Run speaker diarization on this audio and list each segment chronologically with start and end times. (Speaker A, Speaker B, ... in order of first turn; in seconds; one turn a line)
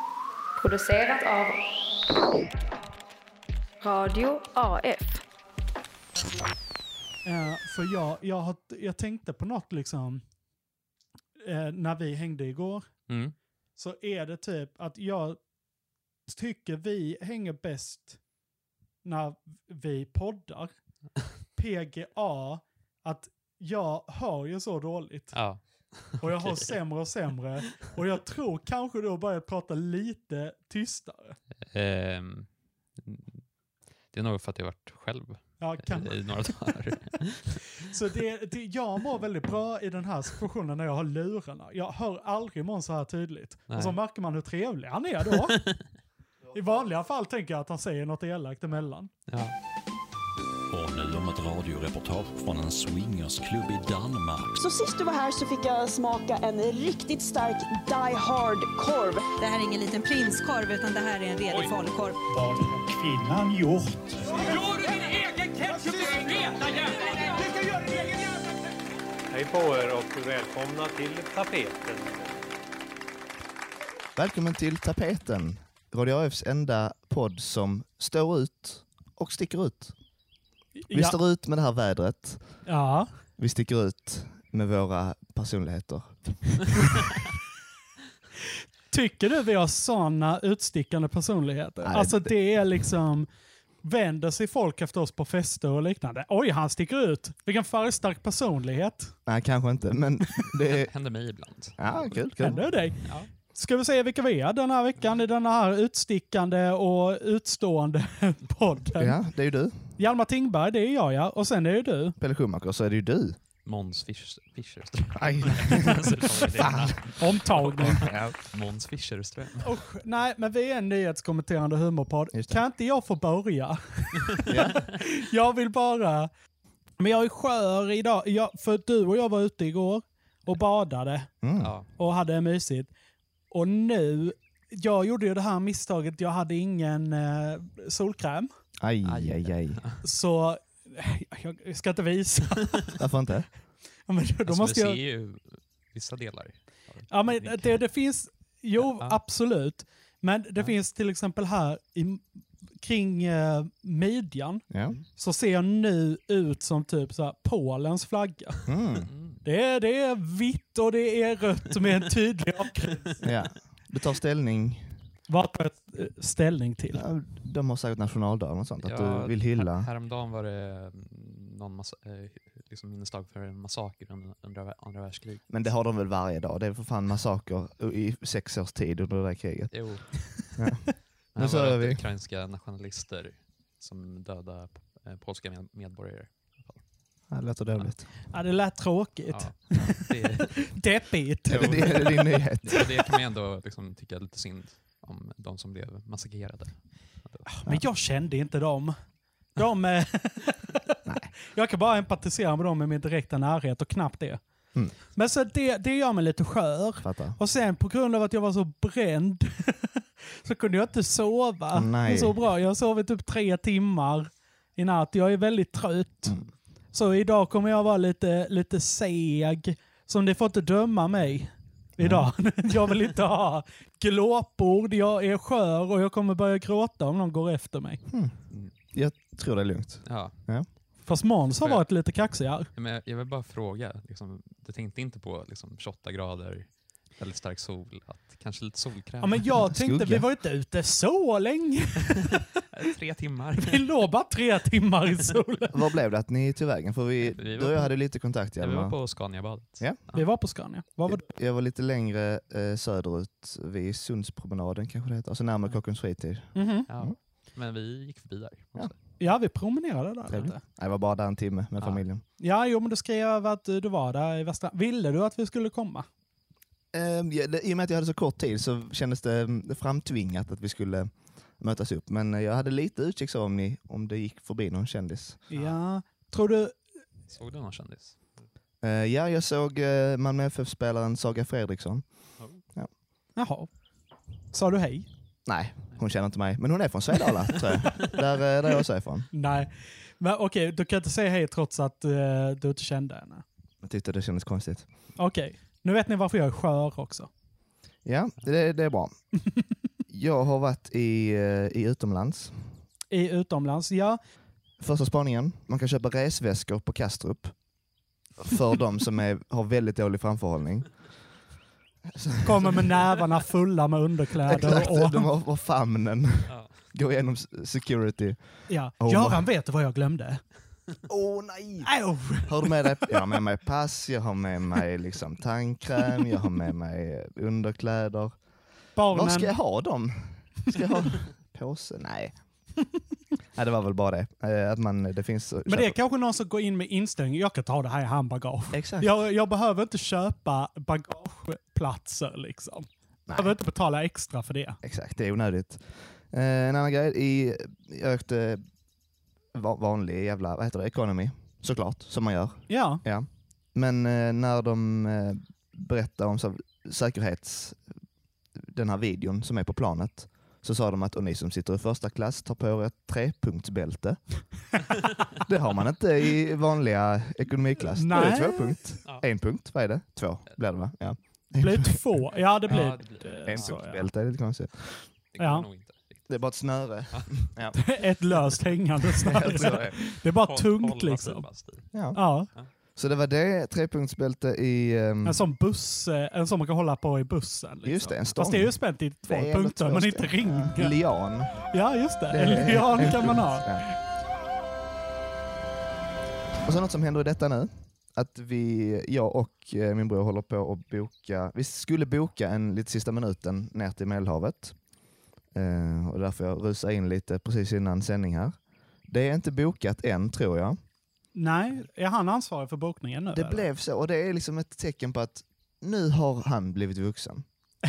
Speaker A: 0.6-1.6
Speaker A: 3.8-5.2
Speaker B: 7.2-10.3
Speaker B: 11.4-15.5
Speaker C: 13.1-13.3
Speaker B: 16.2-18.3
Speaker B: 19.0-20.7
Speaker B: 21.3-31.4
Speaker C: 25.3-26.7
Speaker C: 31.7-33.5
Speaker C: 34.0-37.6
Speaker B: 35.6-36.9
Speaker B: 37.9-45.9
Speaker C: 43.7-44.0
Speaker C: 45.5-45.8
Speaker B: 46.5-49.1
Speaker C: 49.3-49.5
Speaker D: 50.7-54.6
Speaker E: 54.6-59.4
Speaker F: 59.4-62.2
Speaker B: 63.2-63.6
Speaker G: 69.3-72.3
Speaker H: 74.2-80.0
Speaker B: 80.8-81.2
Speaker H: 80.9-82.7
Speaker B: 82.6-83.2
Speaker H: 83.4-86.9
Speaker B: 88.9-93.3
Speaker H: 91.8-92.5
Speaker B: 93.8-99.2
Speaker H: 99.2-102.9
Speaker C: 100.7-103.3
Speaker B: 102.4-109.2
Speaker H: 109.0-109.9
Speaker B: 109.9-112.2
Speaker H: 112.2-113.4
Speaker C: 113.6-119.8
Speaker H: 115.2-116.0
Speaker H: 116.5-118.4
Speaker B: 117.2-118.1
Speaker B: 119.6-126.3
Speaker H: 122.3-122.6
Speaker H: 124.5-124.8
Speaker B: 127.0-131.3
Speaker H: 131.4-131.7
Speaker C: 131.6-131.9
Speaker B: 131.9-132.9
Speaker B: 133.5-138.5
Speaker H: 138.8-139.8
Speaker C: 139.0-140.0
Speaker B: 140.0-143.0
Speaker H: 143.0-143.5
Speaker B: 144.1-145.0
Speaker C: 144.4-147.9
Speaker B: 147.1-158.7
Speaker C: 148.8-149.2
Speaker H: 154.7-155.0
Speaker H: 158.7-159.1
Speaker C: 159.0-159.4
Speaker B: 159.4-163.2
Speaker H: 163.2-164.9
Speaker B: 165.3-167.0
Speaker H: 166.9-169.9
Speaker C: 168.8-175.7
Speaker H: 175.5-182.0
Speaker C: 179.7-180.6
Speaker C: 181.3-187.9
Speaker H: 187.3-188.1
Speaker B: 188.3-190.1
Speaker C: 189.3-190.9
Speaker B: 190.7-192.2
Speaker H: 191.5-192.9
Speaker C: 191.5-197.4
Speaker B: 197.4-200.7
Speaker B: 201.5-228.0
Speaker H: 207.0-207.4
Speaker H: 211.7-212.4
Speaker H: 222.0-222.3
Speaker H: 228.1-230.7
Speaker C: 230.0-231.1
Speaker B: 231.0-232.7
Speaker C: 231.6-239.6
Speaker B: 239.2-242.4
Speaker H: 239.7-240.3
Speaker C: 242.7-243.9
Speaker B: 243.6-245.7
Speaker H: 245.7-250.0
Speaker C: 247.2-250.3
Speaker B: 250.1-251.2
Speaker H: 251.0-257.1
Speaker B: 256.5-256.9
Speaker C: 256.9-259.1
Speaker B: 259.2-260.6
Speaker H: 260.3-262.2
Speaker C: 261.8-262.0
Speaker B: 262.4-266.1
Speaker H: 266.9-275.4
Speaker B: 275.5-276.9
Speaker C: 275.5-275.8
Speaker C: 277.3-278.5
Speaker H: 278.8-282.9
Speaker C: 282.4-282.6
Speaker B: 283.4-285.1
Speaker H: 285.4-289.3
Speaker B: 289.3-293.4
Speaker H: 293.8-294.9
Speaker B: 295.1-297.3
Speaker H: 298.0-299.4
Speaker H: 300.1-302.8
Speaker B: 303.1-304.2
Speaker H: 304.8-307.9
Speaker H: 308.4-311.2
Speaker H: 312.1-313.1
Speaker B: 312.4-315.3
Speaker H: 314.4-319.4
Speaker C: 316.5-316.9
Speaker B: 318.7-320.5
Speaker H: 321.1-332.7
Speaker B: 321.9-323.2
Speaker B: 328.9-329.6
Speaker H: 333.5-335.9
Speaker B: 335.7-344.8
Speaker H: 338.7-339.1
Speaker H: 343.3-343.6
Speaker H: 344.8-348.7
Speaker H: 349.5-357.9
Speaker B: 352.7-353.0
Speaker H: 358.5-364.8
Speaker H: 365.4-375.1
Speaker B: 367.9-368.8
Speaker B: 371.5-374.1
Speaker C: 372.7-373.8
Speaker C: 375.3-377.9
Speaker B: 375.4-375.6
Speaker H: 376.3-377.8
Speaker B: 377.8-382.5
Speaker H: 379.3-380.0
Speaker C: 379.4-381.9
Speaker H: 381.9-385.4
Speaker B: 385.2-393.9
Speaker H: 387.8-393.9
Speaker H: 396.6-404.9
Speaker H: 405.5-410.8
Speaker B: 411.3-413.7
Speaker H: 413.3-417.5